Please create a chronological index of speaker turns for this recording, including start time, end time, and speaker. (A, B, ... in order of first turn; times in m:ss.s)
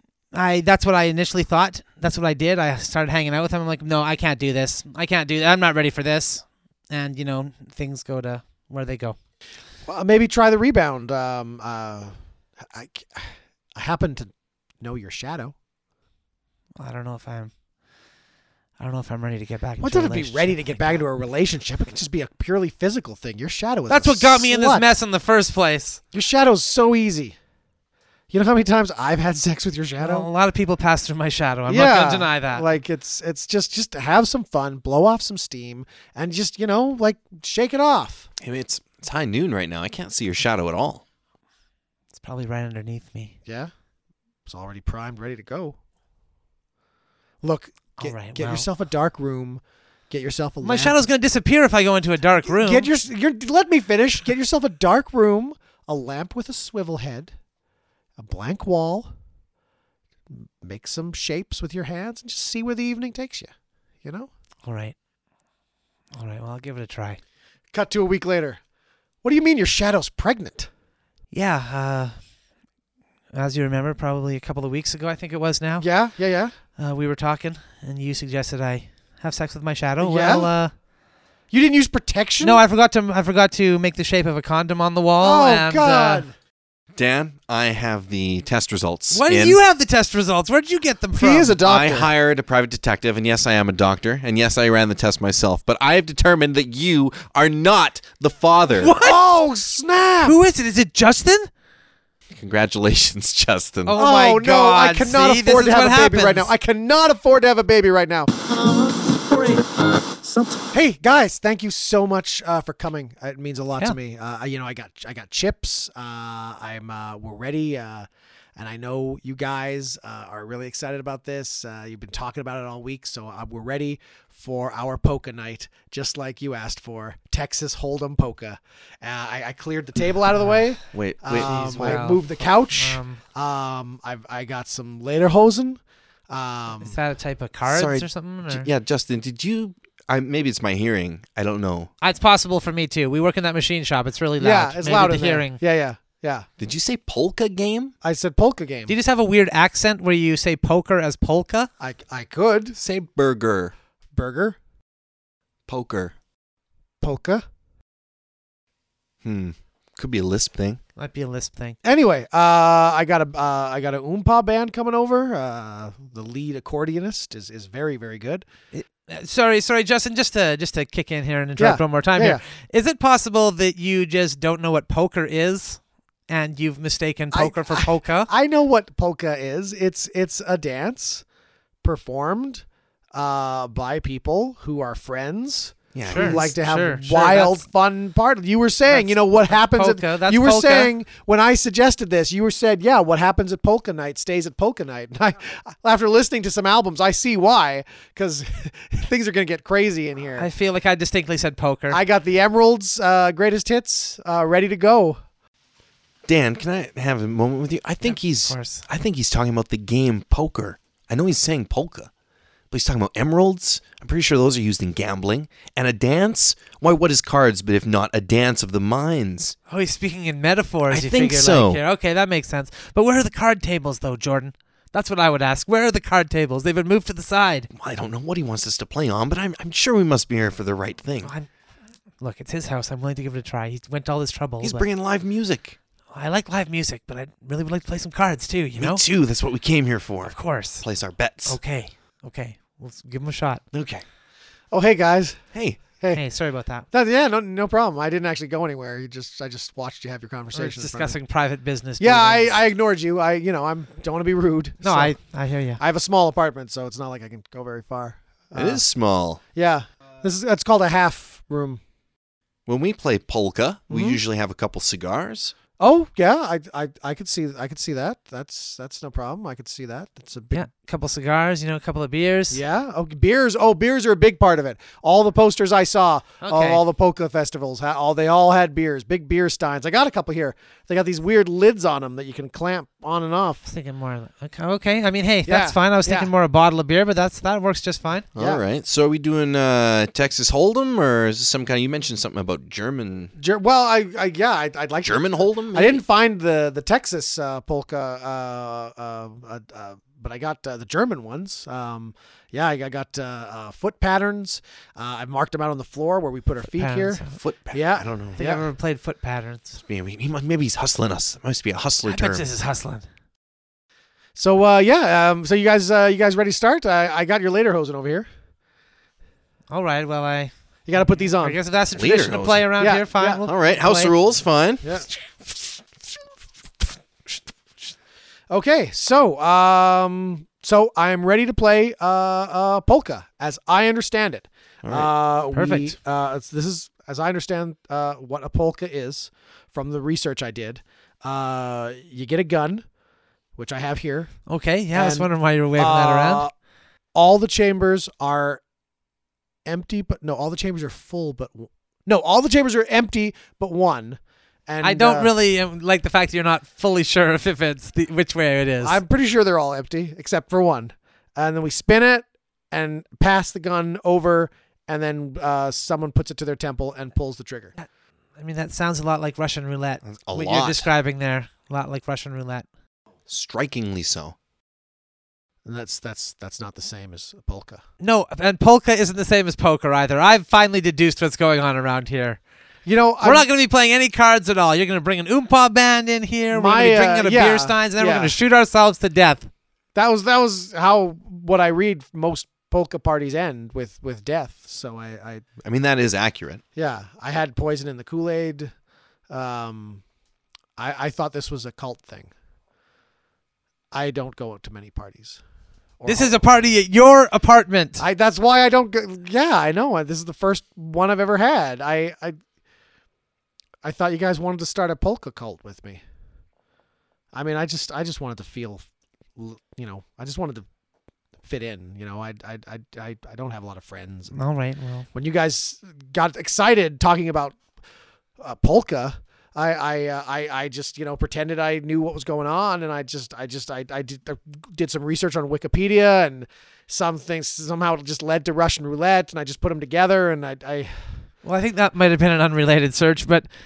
0:00.3-0:09.2 A
0:09.9-0:15.5 B
0:16.8-0:17.5 A
0:18.8-0:21.0 A
0:19.8-0:24.9 B
0:23.9-0:26.0 A
0:26.1-0:27.4 B
0:28.3-0:30.3 B
0:30.0-0:32.7 A
0:31.7-0:38.3 B
0:38.4-0:41.0 C
0:42.2-0:43.4 A
0:43.5-0:43.7 B
0:44.5-0:45.8 B
0:47.4-0:51.0 B
0:48.0-0:48.7 A
0:50.6-0:52.9 A
0:52.5-0:57.3 B
0:58.2-0:59.1 B
1:00.3-1:03.5 B
1:04.0-1:04.3 B
1:04.6-1:05.0 A
1:06.1-1:07.2 A
1:07.7-1:08.6 B
1:09.2-1:10.7 B
1:11.3-1:12.2 A
1:13.3-1:15.9 A
1:15.8-1:16.5 B
1:16.8-1:20.7 A
1:20.0-1:20.5 B
1:21.5-1:22.6 B
1:22.4-1:26.3 A
1:25.2-1:26.3 B
1:27.0-1:29.6 C
1:29.1-1:31.6 A
1:31.2-1:32.1 B
1:31.6-1:38.9 C
1:38.8-1:39.2 A
1:39.0-1:40.4 B
1:40.2-1:41.5 A
1:42.3-1:44.0 C
1:43.9-1:46.5 A
1:44.0-1:48.3 B
1:50.7-2:17.0 B
2:10.9-2:12.2 C
2:11.3-2:12.2 A
2:12.7-2:13.2 A
2:16.8-2:18.7 A
2:17.7-2:21.9 C
2:22.0-2:25.6 A
2:24.4-2:26.5 B
2:26.6-2:27.9 C
2:28.0-2:28.9 B
2:28.9-2:31.7 A
2:31.8-2:32.8 B
2:32.8-2:33.7 C
2:34.1-2:34.6 B
2:35.7-2:36.1 C
2:37.0-2:37.4 B
2:39.2-2:40.8 C
2:41.0-2:41.8 A
2:41.8-2:48.4 B
2:48.7-2:58.3 A
2:51.6-2:52.4 B
2:57.3-3:01.2 B
3:01.8-3:20.5 B
3:06.0-3:06.5 C
3:06.1-3:07.6 A
3:08.9-3:10.9 A
3:20.4-3:22.0 A
3:21.9-3:25.2 B
3:26.3-3:32.1 C
3:28.0-3:28.8 A
3:32.7-3:39.6 C
3:39.7-3:47.7 A
3:40.9-3:41.8 C
3:47.7-3:51.3 C
3:51.2-3:51.5 A
3:52.2-3:54.9 A
3:54.6-3:55.8 C
3:56.1-3:59.0 A
3:58.8-4:01.6 C
4:00.3-4:00.8 A
4:01.5-4:03.6 A
4:03.7-4:04.0 C
4:04.7-4:05.4 B
4:05.5-4:05.8 C
4:06.1-4:06.9 A
4:06.9-4:11.2 B
4:10.5-4:12.6 A
4:12.0-4:15.2 B
4:14.8-4:15.8 A
4:15.8-4:18.8 B
4:18.5-4:19.4 C
4:19.6-4:21.8 B
4:22.7-4:25.6 C
4:23.9-4:24.2 B
4:25.8-4:30.7 B
4:30.5-4:32.6 A
4:32.5-4:43.6 B
4:36.4-4:36.8 A
4:43.6-4:48.3 A
4:45.5-4:46.3 B
4:48.4-4:48.6 B
4:48.4-4:53.3 C
4:53.4-5:08.6 B
4:55.0-4:56.0 C
5:06.7-5:07.3 A
5:07.3-5:08.4 C
5:08.4-5:09.8 A
5:09.8-5:12.4 C
5:12.0-5:13.1 A
5:14.4-5:18.3 B
5:19.7-5:24.1 A
5:20.9-5:21.6 B
5:22.0-5:22.7 C
5:22.8-5:23.4 B
5:23.5-5:25.0 C
5:24.8-5:25.1 B
5:28.5-5:42.8 B
5:34.8-5:35.1 C
5:35.5-5:36.0 A
5:43.6-5:44.3 B
5:44.5-5:46.4 A
5:44.9-5:46.5 B
5:47.1-5:48.6 B
5:49.6-5:55.3 B
5:54.8-5:59.0 A
5:58.8-6:07.7 B
6:07.8-6:12.7 A
6:10.0-6:10.9 C
6:13.3-6:14.4 C
6:15.6-6:17.8 B
6:18.0-6:22.4 A
6:22.8-6:23.5 B
6:23.2-6:29.5 A
6:26.5-6:28.4 B
6:30.0-6:35.4 B
6:35.6-6:36.6 C
6:36.8-6:38.7 B
6:39.3-6:40.0 B
6:40.8-6:42.3 B
6:43.9-6:45.4 B
6:46.0-6:46.4 B
6:46.1-6:48.0 A
6:48.0-6:52.4 B
6:53.8-6:56.0 B
6:57.3-7:00.7 B
7:01.4-7:04.4 B
7:04.3-7:05.1 A
7:05.1-7:07.6 B
7:08.4-7:21.3 B
7:21.4-7:23.5 A